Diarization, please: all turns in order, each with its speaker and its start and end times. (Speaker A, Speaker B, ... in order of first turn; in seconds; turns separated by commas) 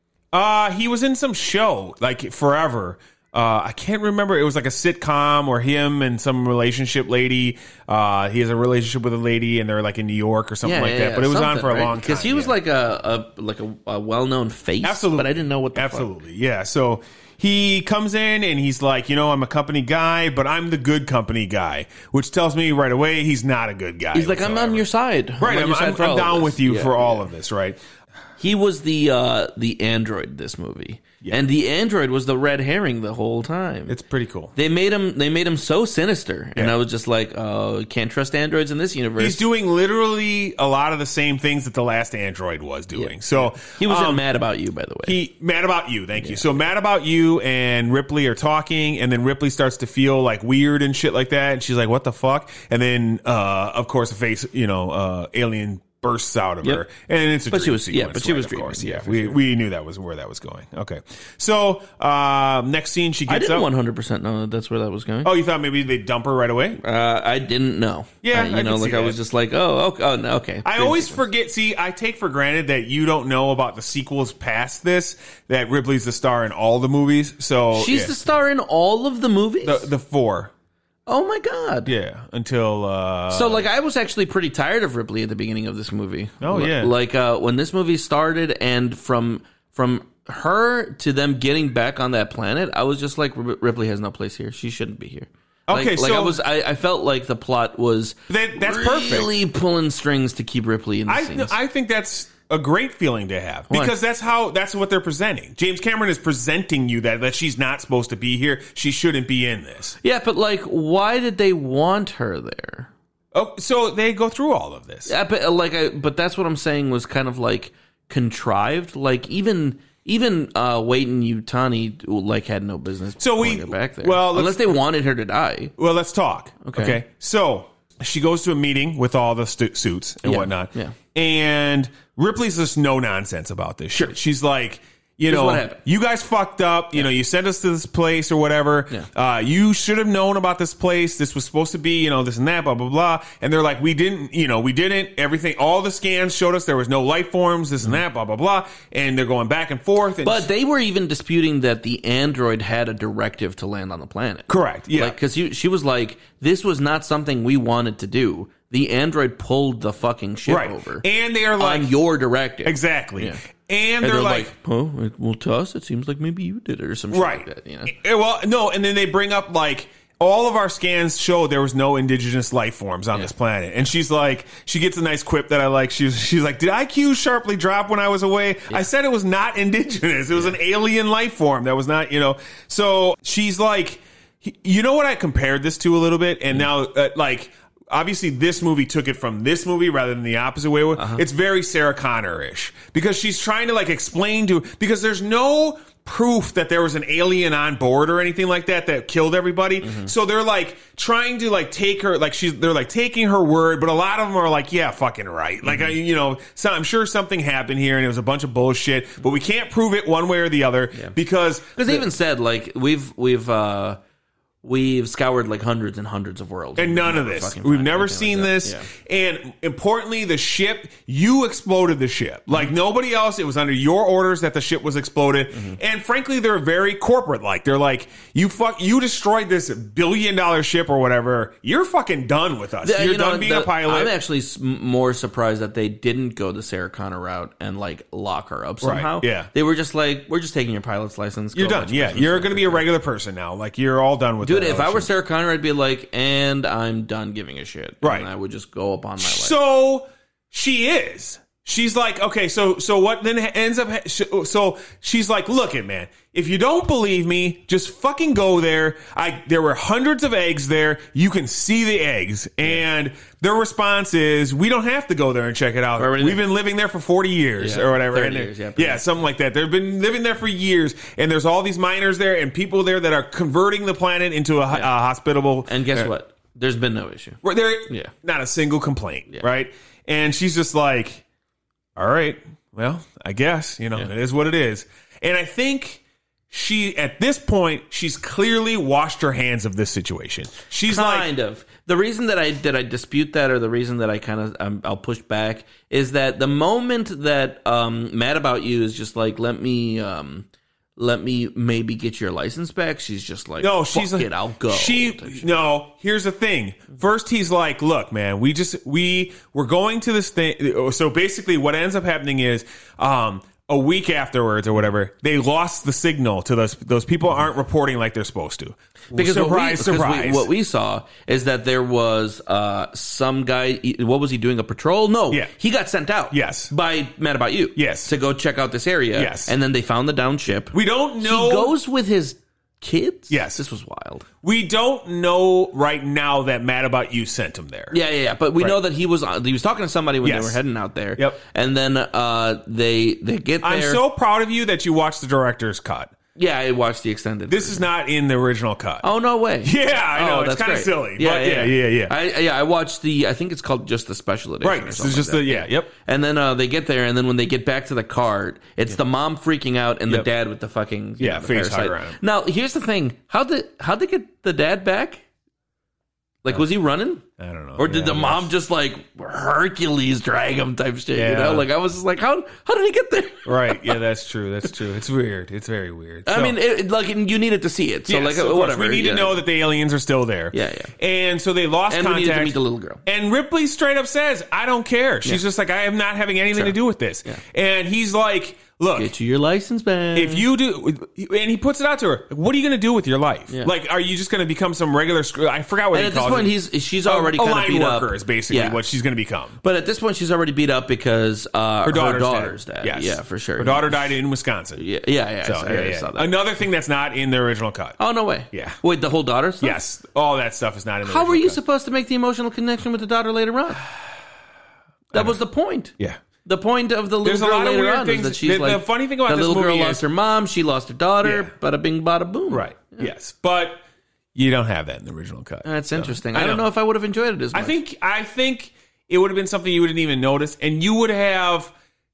Speaker A: 0.3-12.6, Speaker B: 10.6-16.1, Speaker A: 14.8-24.9, Speaker B: 24.1-27.3, Speaker A: 25.4-27.8, Speaker B: 28.4-34.0, Speaker A: 33.9-34.5, Speaker B: 34.5-39.4, Speaker A: 39.2-44.2, Speaker B: 42.9-45.2, Speaker A: 45.1-63.7, Speaker B: 46.2-46.5, Speaker B: 57.5-59.4, Speaker B: 63.3-65.3, Speaker A: 65.2-66.8, Speaker B: 66.8-71.2, Speaker A: 68.2-69.2, Speaker A: 70.6-78.2, Speaker B: 77.7-79.9, Speaker A: 79.6-80.5, Speaker B: 81.1-81.9, Speaker A: 81.8-83.7, Speaker B: 83.3-101.5, Speaker A: 86.4-86.9, Speaker A: 95.7-96.4, Speaker A: 98.3-99.3, Speaker A: 101.1-110.0, Speaker B: 110.0-112.9, Speaker A: 113.3-115.1, Speaker B: 115.1-125.7, Speaker A: 123.2-124.8, Speaker A: 125.8-150.5, Speaker B: 126.6-127.0, Speaker B: 130.2-130.9, Speaker B: 135.3-135.8, Speaker B: 150.2-161.1, Speaker A: 154.5-155.2, Speaker A: 160.5-161.9, Speaker B: 161.6-163.4, Speaker A: 162.7-164.5, Speaker B: 164.0-167.9, Speaker A: 167.1-212.1, Speaker B: 190.9-191.2, Speaker B: 199.8-200.1, Speaker B: 205.7-205.9, Speaker B: 211.8-214.0, Speaker B: 214.6-218.9, Speaker A: 216.8-234.2, Speaker B: 225.5-225.8, Speaker B: 232.8-242.8, Speaker A: 238.8-239.5, Speaker A: 241.5-245.1, Speaker B: 244.4-249.6, Speaker A: 248.0-248.3, Speaker A: 249.2-276.1, Speaker B: 266.0-266.4, Speaker B: 267.6-269.0, Speaker B: 275.7-278.1, Speaker A: 277.4-281.2, Speaker A: 281.9-291.3, Speaker B: 290.8-305.5, Speaker A: 303.6-320.5, Speaker B: 319.1-334.3, Speaker A: 326.3-326.7, Speaker A: 327.8-328.1, Speaker A: 329.1-329.5, Speaker A: 330.7-331.7, Speaker A: 333.3-333.6, Speaker A: 334.4-337.9, Speaker B: 337.9-344.0, Speaker A: 340.2-340.6, Speaker A: 343.6-346.1, Speaker B: 346.4-347.9, Speaker A: 347.5-349.1, Speaker B: 349.0-365.2, Speaker A: 349.6-352.1, Speaker A: 354.6-355.9, Speaker A: 361.2-362.2, Speaker B: 366.4-367.2, Speaker A: 367.4-368.5, Speaker B: 367.8-374.0, Speaker A: 371.1-371.7, Speaker A: 373.4-376.6, Speaker B: 376.3-379.4, Speaker A: 378.1-389.1, Speaker B: 380.5-380.9, Speaker B: 381.9-383.0, Speaker B: 386.5-387.4, Speaker B: 388.9-390.4, Speaker A: 390.1-399.6, Speaker B: 395.9-398.8, Speaker B: 399.6-404.1, Speaker A: 401.8-404.8, Speaker B: 404.8-406.3, Speaker A: 405.4-408.0, Speaker B: 408.0-409.8, Speaker A: 408.5-408.8, Speaker A: 409.6-411.6, Speaker B: 411.0-413.8, Speaker A: 415.1-415.4, Speaker B: 415.1-415.9, Speaker B: 416.4-423.1, Speaker A: 417.2-420.0, Speaker A: 421.2-421.5, Speaker A: 422.5-423.8, Speaker A: 424.3-426.7, Speaker B: 425.6-427.8, Speaker A: 427.5-431.7